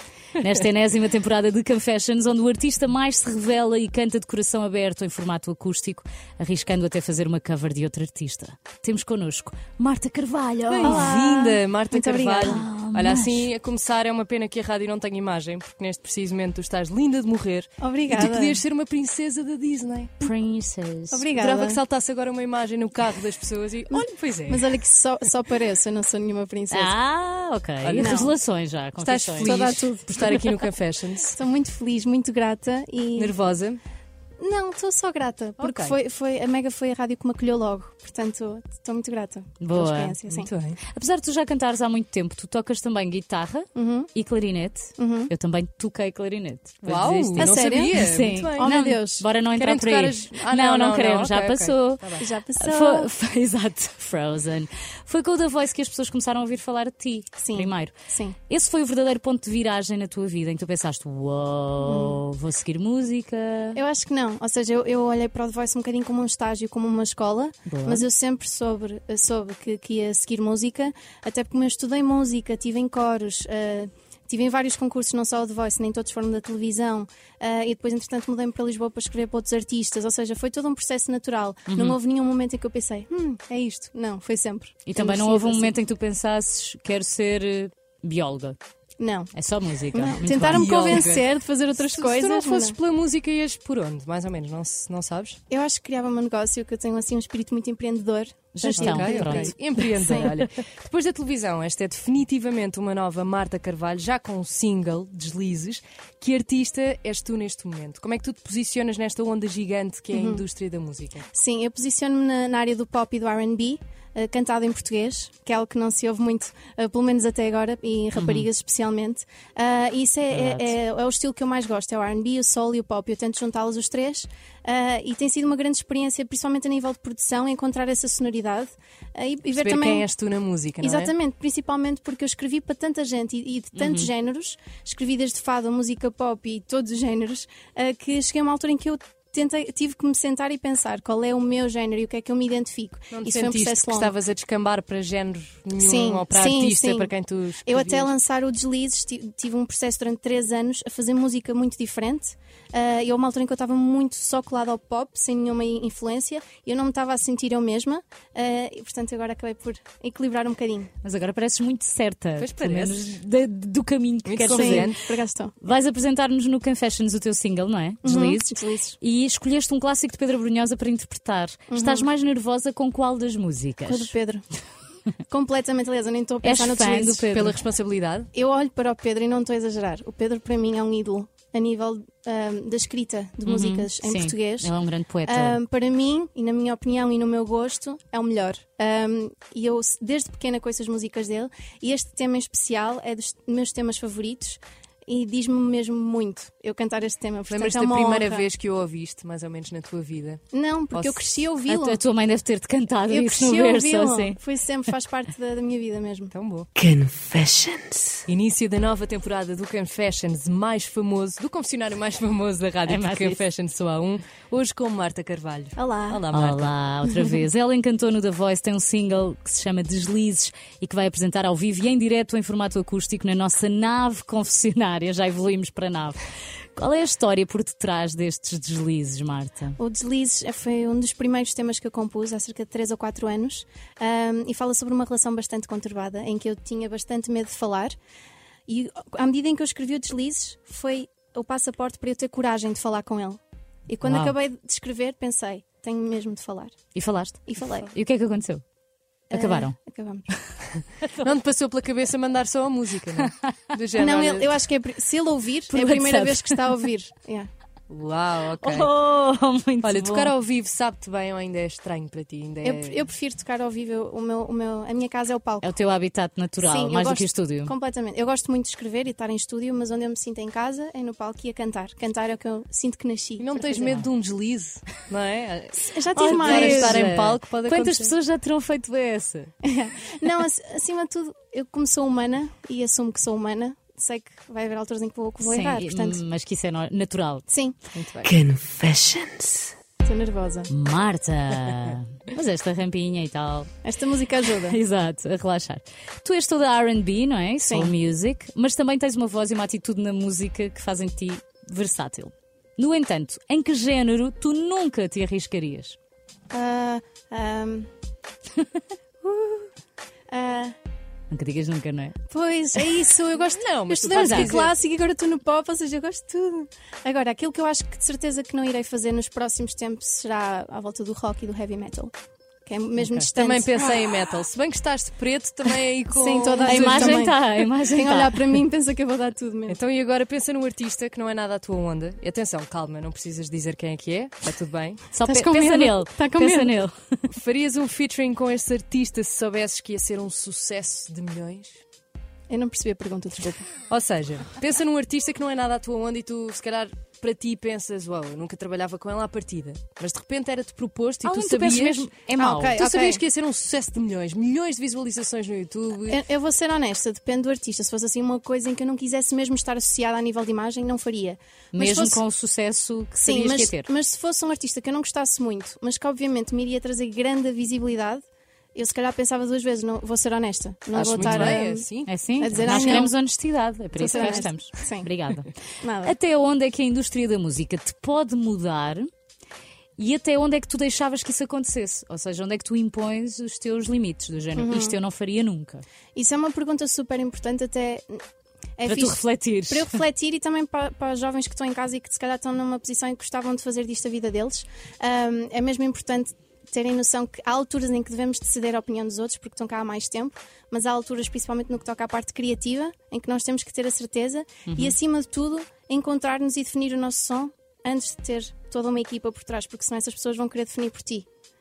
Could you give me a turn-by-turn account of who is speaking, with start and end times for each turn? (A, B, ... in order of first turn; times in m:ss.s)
0:00.4-0:11.5 A
0:10.7-0:20.3 B
0:10.8-0:12.6 C
0:12.4-0:13.4 A
0:17.8-0:18.6 C
0:20.2-0:21.2 A
0:21.1-0:21.8 C
0:21.3-0:24.6 B
0:23.9-0:26.9 C
0:26.7-0:29.8 A
0:27.8-0:28.2 B
0:28.0-0:28.3 C
0:29.0-0:31.3 B
0:29.4-0:30.5 C
0:31.3-0:33.4 C
0:33.2-0:33.8 B
0:34.4-0:40.5 C
0:35.6-0:36.0 B
0:39.6-0:40.2 A
0:40.3-0:40.8 B
0:40.9-0:57.9 A
0:43.7-0:44.1 C
0:45.0-0:45.3 C
0:46.8-0:48.7 B
0:47.4-0:49.3 C
0:49.5-0:52.2 B
0:52.2-0:53.1 C
0:57.4-0:58.4 C
0:58.5-1:03.8 A
1:01.8-1:02.2 C
1:03.7-1:25.7 C
1:07.7-1:08.0 A
1:21.7-1:22.0 A
1:24.8-1:28.6 A
1:29.0-1:29.3 C
1:29.3-1:31.0 A
1:29.9-1:32.8 C
1:30.4-1:31.3 B
1:31.8-1:35.4 B
1:35.5-1:40.3 C
1:38.6-1:40.3 A
1:38.7-1:51.2 B
1:50.1-1:50.4 C
1:51.3-2:10.1 C
1:58.2-1:58.5 A
2:00.3-2:00.7 A
2:09.6-2:11.1 B
2:10.8-2:24.1 C
2:13.8-2:14.1 A
2:23.1-2:28.1 B
2:25.8-2:27.1 C
2:27.6-2:40.9 C
2:41.0-2:44.9 A
2:42.4-2:43.2 B
2:44.2-2:45.0 B
2:44.5-2:45.5 C
2:45.6-2:54.1 A
2:48.0-2:49.0 C
2:51.7-2:52.1 C
2:53.8-2:54.4 C
2:55.3-2:57.4 C
2:56.4-2:57.5 A
2:57.3-2:58.3 B
2:58.3-3:04.7 C
3:03.4-3:05.6 A
3:05.2-3:18.5 C
3:17.5-3:20.4 B
3:20.5-3:22.0 C
3:20.9-3:21.3 B
3:21.7-3:24.4 A
3:23.1-3:26.3 C
3:26.3-3:26.7 B
3:26.8-3:28.2 D
3:28.3-3:36.7 B
3:32.9-3:33.4 A
3:35.8-3:36.2 C
3:36.3-3:46.2 A
3:46.7-3:49.8 A
3:49.8-3:58.0 C
3:58.7-4:06.7 C
4:04.0-4:04.3 A
4:06.9-4:08.6 A
4:07.5-4:07.9 C
4:09.3-4:10.2 C
4:09.3-4:09.7 A
4:11.1-4:14.5 B
4:13.2-4:13.5 A
4:13.9-4:17.5 C
4:15.7-4:16.6 A
4:17.9-4:18.9 B
4:18.6-4:20.3 A
4:19.8-4:23.0 B
4:22.6-4:25.7 C
4:25.6-4:27.7 A
4:26.6-4:34.0 C
4:33.4-4:38.1 B
4:35.7-4:37.1 C
4:36.1-4:39.5 A
4:39.6-4:46.2 C
4:45.4-4:47.4 A
4:47.5-4:47.8 C
4:47.9-4:48.3 B
4:48.2-4:49.7 D
4:50.0-4:50.7 C
4:50.7-4:53.7 A
4:53.8-4:54.8 C
4:54.7-5:06.0 A
4:57.6-4:57.9 C
5:06.5-5:07.9 C
5:09.2-5:09.7 C
5:10.3-5:10.7 C
5:11.3-5:12.2 A
5:12.3-5:22.1 C
5:13.4-5:14.7 B
5:14.1-5:14.5 A
5:22.6-5:24.2 C
5:23.0-5:27.3 B
5:26.1-5:29.8 C
5:26.6-5:28.5 A
5:29.7-5:35.0 B
5:35.1-5:37.2 A
5:35.2-5:36.7 C
5:37.3-5:41.8 B
5:42.5-5:43.7 C
5:43.9-5:52.1 B
5:51.2-5:52.8 A
5:52.3-5:53.2 C
5:52.7-5:56.2 B
5:56.1-6:02.2 C
6:01.7-6:03.9 A
6:03.2-6:08.2 C
6:08.7-6:13.1 C
6:10.9-6:13.0 B
6:11.0-6:15.5 A
6:14.0-6:15.1 C
6:14.0-6:14.4 B
6:15.8-6:16.2 C
6:16.0-6:19.1 A
6:20.0-6:25.8 A
6:24.6-6:25.0 C
6:26.1-6:28.2 C
6:28.8-6:51.2 C
6:28.8-6:29.9 A
6:44.7-6:45.0 A